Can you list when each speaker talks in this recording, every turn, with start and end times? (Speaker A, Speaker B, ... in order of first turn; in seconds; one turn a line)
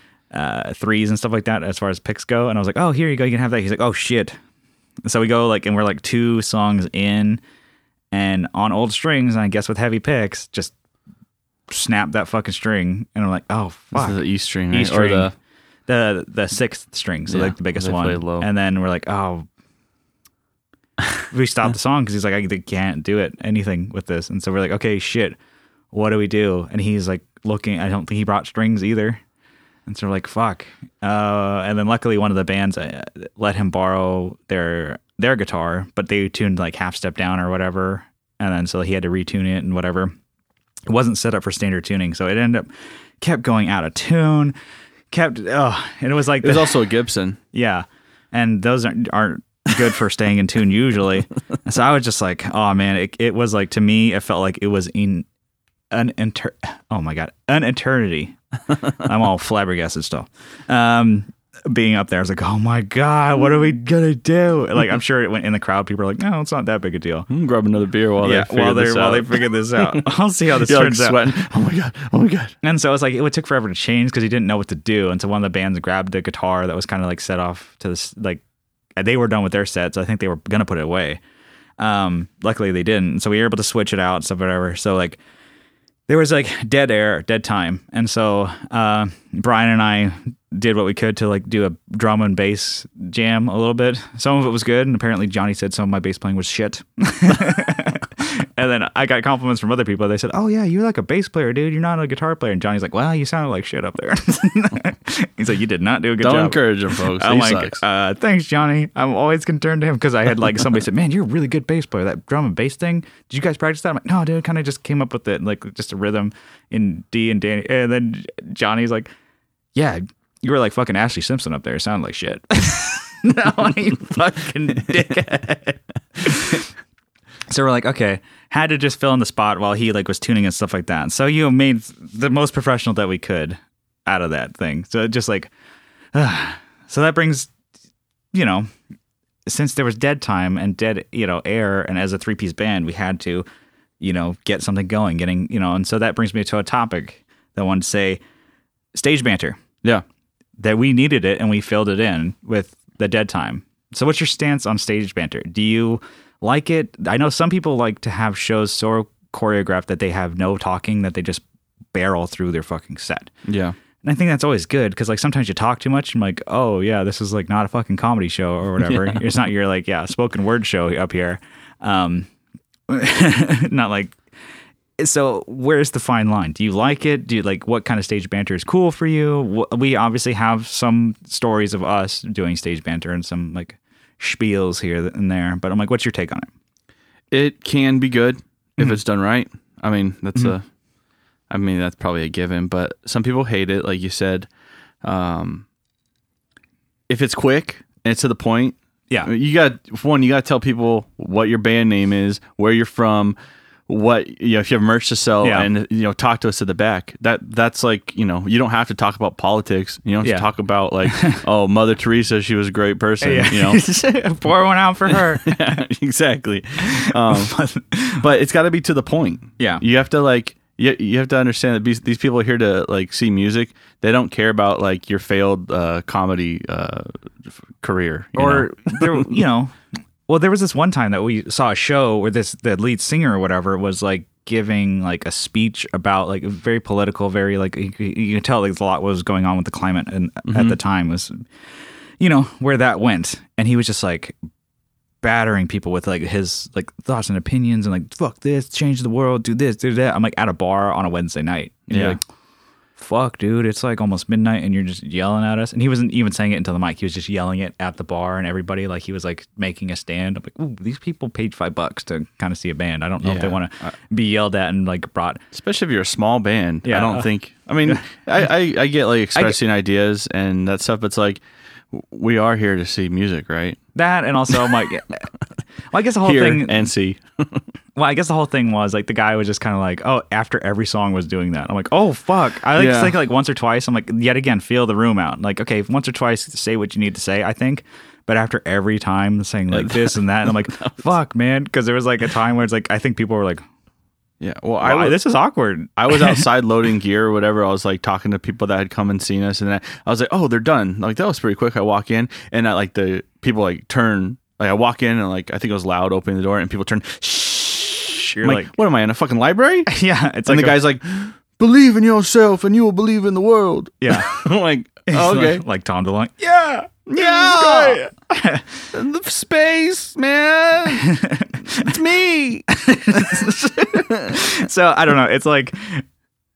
Speaker A: 0.3-4.4
Speaker A: 5.0-7.4
Speaker A: 8.1-10.7
Speaker A: 11.7-15.3
Speaker B: 13.9-15.3
Speaker A: 15.9-19.4
Speaker B: 17.3-18.5
Speaker A: 21.3-25.4
Speaker A: 25.9-29.2
Speaker A: 29.9-40.1
Speaker A: 40.9-42.7
Speaker A: 43.2-44.5
Speaker A: 45.1-46.8
Speaker B: 46.4-47.4
Speaker A: 47.5-55.2
Speaker A: 55.9-58.4
Speaker A: 58.9-67.3
Speaker B: 67.3-72.5
Speaker A: 68.2-71.3
Speaker A: 72.6-78.4
Speaker A: 79.0-81.2
Speaker A: 81.8-85.2
Speaker A: 86.1-119.1
Speaker B: 106.2-107.8
Speaker A: 119.7-126.7
Speaker A: 127.5-135.5
Speaker A: 136.1-137.5
Speaker A: 138.3-138.7
Speaker A: 139.5-143.4
Speaker A: 144.0-148.2
Speaker A: 148.9-149.6
Speaker A: 150.6-163.3
Speaker B: 163.4-163.8
Speaker A: 164.0-172.3
Speaker B: 168.8-169.2
Speaker A: 172.9-174.2
Speaker A: 175.0-186.5
Speaker B: 187.3-190.6
Speaker B: 191.5-194.5
Speaker B: 195.0-195.7
Speaker B: 197.1-203.4
Speaker B: 203.9-213.8
Speaker A: 205.4-205.7
Speaker A: 211.1-211.4
Speaker A: 213.2-215.8
Speaker B: 215.1-217.6
Speaker A: 216.8-218.2
Speaker B: 218.1-229.4
Speaker A: 228.3-229.7
Speaker A: 230.3-241.4
Speaker B: 240.4-240.8
Speaker A: 242.2-244.3
Speaker A: 245.2-252.2
Speaker B: 251.9-252.2
Speaker A: 253.0-265.4
Speaker B: 263.2-263.9
Speaker B: 265.5-273.8
Speaker A: 266.8-267.3
Speaker A: 273.9-275.3
Speaker A: 275.9-276.9
Speaker B: 276.2-277.6
Speaker A: 277.9-293.6
Speaker B: 282.8-283.1
Speaker B: 289.7-290.9
Speaker B: 294.4-295.2
Speaker A: 294.8-296.4
Speaker B: 296.0-309.9
Speaker A: 308.2-308.7
Speaker A: 309.9-310.8
Speaker B: 310.4-315.6
Speaker A: 314.0-314.4
Speaker A: 315.1-318.7
Speaker B: 317.1-318.1
Speaker B: 318.9-324.4
Speaker A: 321.0-321.9
Speaker A: 322.7-326.0